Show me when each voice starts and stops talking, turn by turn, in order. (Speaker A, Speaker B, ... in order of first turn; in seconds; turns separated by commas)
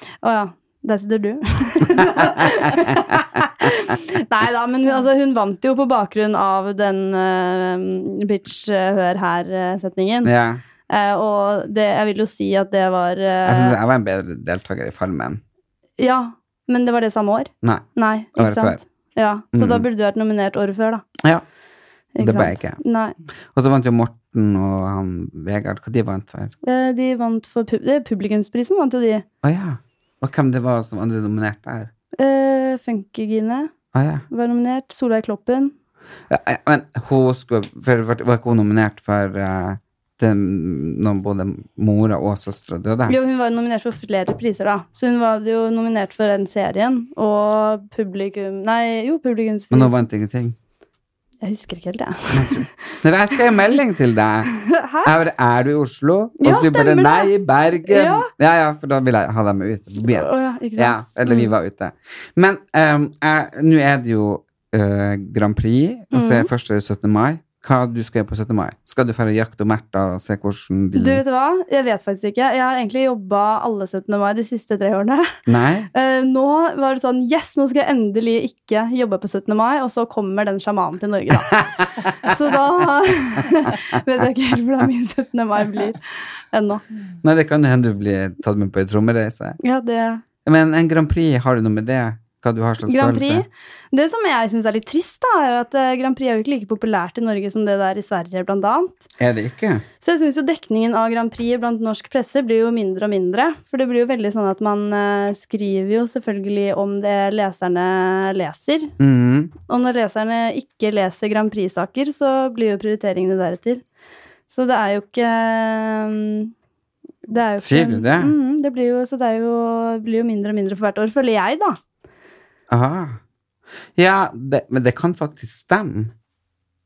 Speaker A: 0.2-10.3, Speaker B: 10.2-10.6, Speaker A: 10.9-13.8, Speaker B: 13.5-15.4, Speaker A: 16.0-21.0, Speaker B: 17.6-18.8, Speaker B: 19.5-19.9, Speaker A: 22.2-23.2, Speaker B: 22.2-22.8, Speaker B: 23.6-26.6, Speaker A: 26.6-29.2, Speaker B: 29.4-31.9, Speaker A: 32.2-33.7, Speaker B: 33.9-34.3, Speaker A: 34.3-35.7, Speaker B: 36.3-43.2, Speaker A: 43.1-50.0, Speaker B: 49.7-50.6, Speaker A: 51.4-52.6, Speaker B: 52.3-71.2, Speaker A: 54.6-55.1, Speaker A: 56.4-57.3, Speaker A: 57.8-58.3, Speaker A: 60.0-61.5, Speaker A: 66.1-66.5, Speaker A: 71.0-75.3, Speaker B: 75.5-75.9, Speaker A: 75.9-81.6, Speaker A: 82.2-86.8, Speaker B: 87.2-89.6, Speaker A: 89.6-90.2, Speaker B: 90.5-93.5, Speaker A: 92.9-99.0, Speaker B: 99.2-99.8, Speaker A: 100.0-108.9, Speaker B: 109.0-109.5, Speaker A: 109.7-113.8, Speaker A: 114.5-116.5, Speaker A: 117.3-121.8, Speaker B: 117.6-118.3, Speaker B: 122.7-123.2, Speaker B: 124.0-126.1